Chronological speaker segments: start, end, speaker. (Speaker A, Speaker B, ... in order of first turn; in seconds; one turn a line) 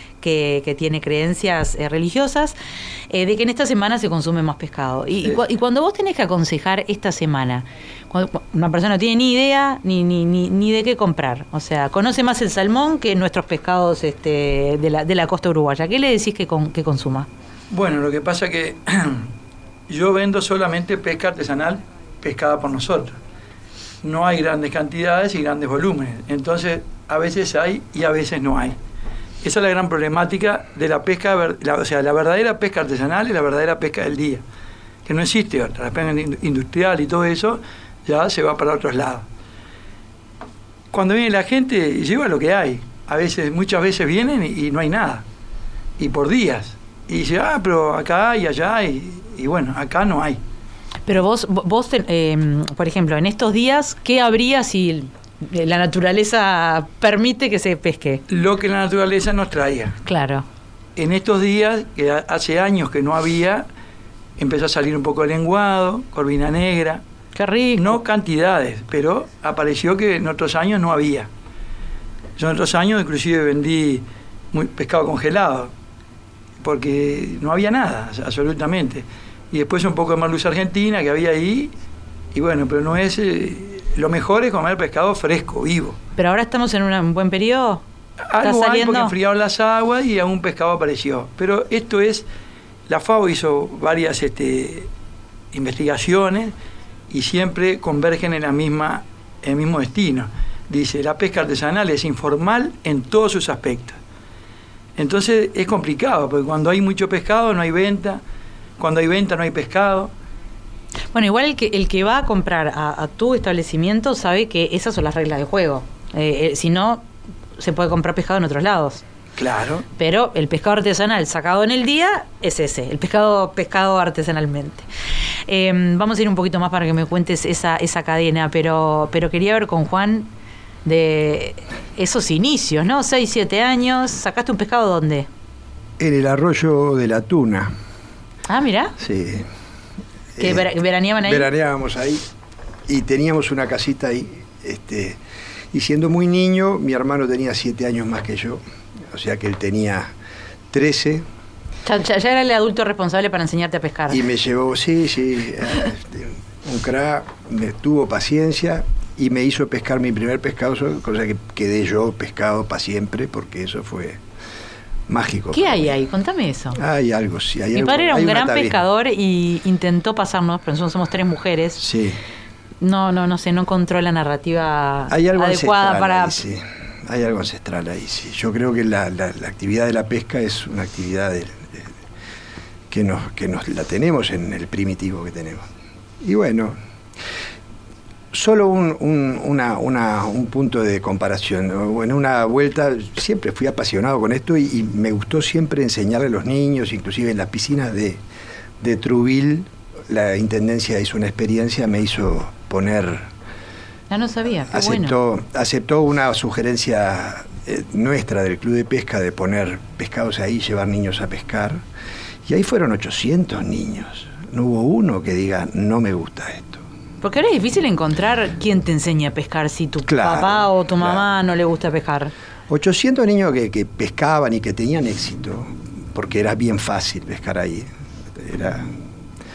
Speaker A: 0.2-2.5
Speaker A: 3.1-17.3
Speaker B: 17.7-19.3
Speaker B: 19.9-23.2
Speaker B: 24.0-28.8
Speaker B: 29.4-34.4
Speaker B: 35.0-39.2
Speaker B: 40.9-45.2
Speaker B: 46.0-50.4
Speaker A: 51.0-58.2
Speaker B: 58.3-60.0
Speaker A: 60.0-60.4
Speaker B: 61.0-63.6
Speaker B: 64.4-67.0
Speaker A: 67.3-68.0
Speaker B: 67.8-71.3
Speaker B: 72.4-75.7
Speaker B: 76.6-81.7
Speaker B: 82.3-86.0
Speaker A: 86.2-87.8
Speaker B: 88.3-92.3
Speaker A: 88.4-89.1
Speaker B: 92.9-94.9
Speaker B: 95.5-96.5
Speaker B: 97.1-104.0
Speaker B: 105.0-108.2
Speaker B: 108.8-110.1
Speaker A: 111.1-119.0
Speaker B: 119.4-119.8
Speaker A: 120.0-124.8
Speaker A: 125.5-130.3
Speaker A: 130.8-135.3
Speaker C: 136.0-137.7
Speaker A: 138.5-138.9
Speaker C: 139.0-139.5
Speaker C: 140.3-140.7
Speaker A: 140.4-141.5
Speaker C: 141.2-142.2
Speaker C: 142.9-145.2
Speaker C: 145.7-150.1
Speaker C: 150.7-151.2
Speaker A: 151.8-154.2
Speaker C: 154.1-164.2
Speaker C: 165.1-165.8
Speaker A: 165.5-166.8
Speaker C: 166.7-168.8
Speaker A: 167.7-171.8
Speaker C: 171.8-172.2
Speaker A: 172.8-176.4
Speaker C: 175.1-181.9
Speaker C: 182.9-185.7
Speaker C: 186.2-186.8
Speaker C: 188.3-198.2
Speaker C: 198.8-203.3
Speaker A: 204.1-205.1
Speaker C: 204.7-211.8
Speaker C: 212.4-216.8
Speaker A: 217.2-222.3
Speaker C: 220.0-221.3
Speaker C: 222.7-229.0